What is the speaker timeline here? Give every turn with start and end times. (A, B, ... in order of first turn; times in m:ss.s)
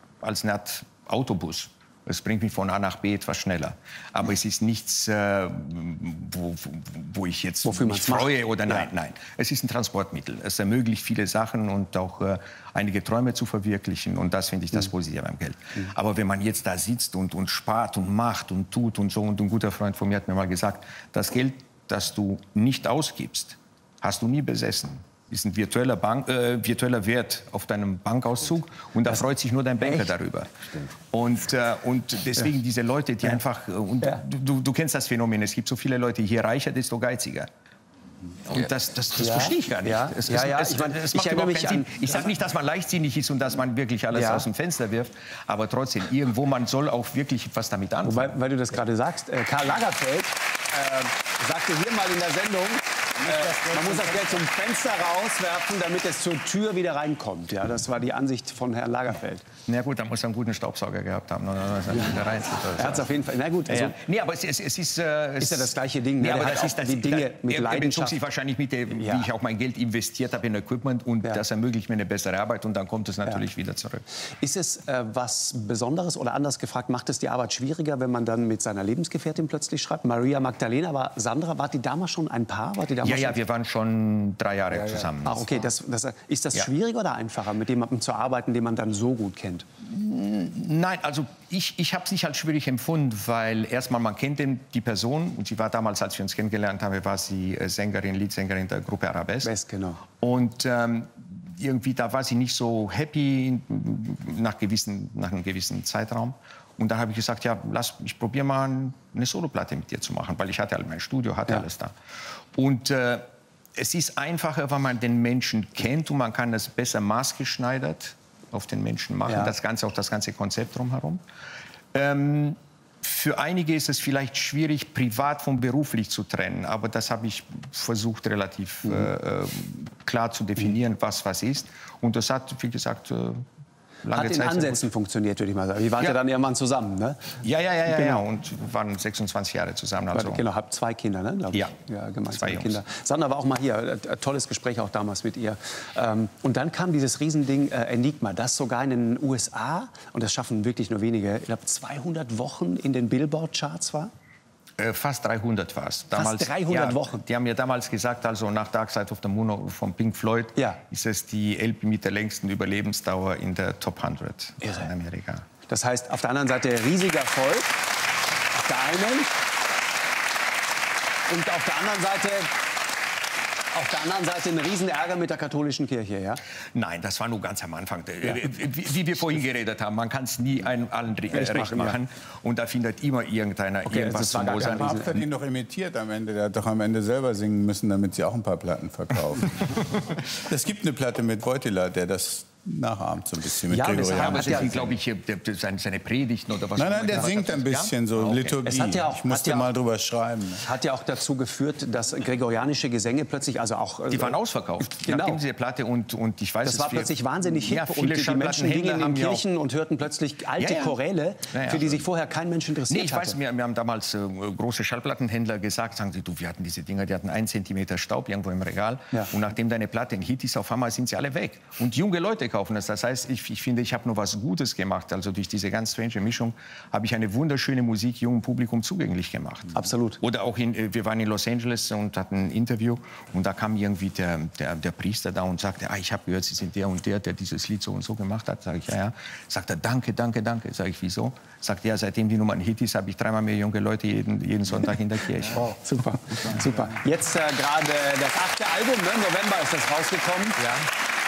0:00.2-0:37.5 A
0:07.6-0:08.9 B
0:38.4-0:48.4 A
0:39.2-0:42.2 B
0:44.1-0:44.4 B
0:48.0-0:59.4 B
0:53.2-0:54.4 C
0:59.6-1:03.1 A
1:02.8-1:04.0 B
1:03.7-1:14.0 A
1:05.4-1:08.2 B
1:09.0-1:09.3 B
1:14.4-1:23.4 B
1:23.0-1:25.6 A
1:25.2-1:29.6 B
1:29.8-1:39.5 A
1:39.4-1:40.0 B
1:40.2-1:51.9 A
1:52.5-2:01.2 A
2:01.9-2:13.4 A
2:14.0-2:14.8 A
2:14.1-2:17.4 B
2:17.4-2:20.4 A
2:17.9-2:18.2 B
2:20.1-2:34.1 B
2:22.3-2:22.8 A
2:34.8-2:45.5 A
2:36.1-2:37.2 B
2:45.7-2:47.8 B
2:48.5-2:49.3 B
2:51.3-2:52.6 B
2:53.7-2:56.4 B
2:56.7-3:05.2 A
3:01.3-3:02.0 B
3:03.8-3:05.2 B
3:04.7-3:09.8 C
3:10.4-3:14.9 C
3:13.7-3:14.8 B
3:14.1-3:18.6 A
3:16.8-3:20.6 C
3:18.6-3:19.7 B
3:20.6-3:25.4 B
3:24.1-3:29.4 A
3:26.6-3:33.4 B
3:30.6-3:31.0 A
3:31.5-3:32.0 A
3:32.9-4:05.8 A
3:49.7-3:50.2 B
4:05.6-4:10.7 B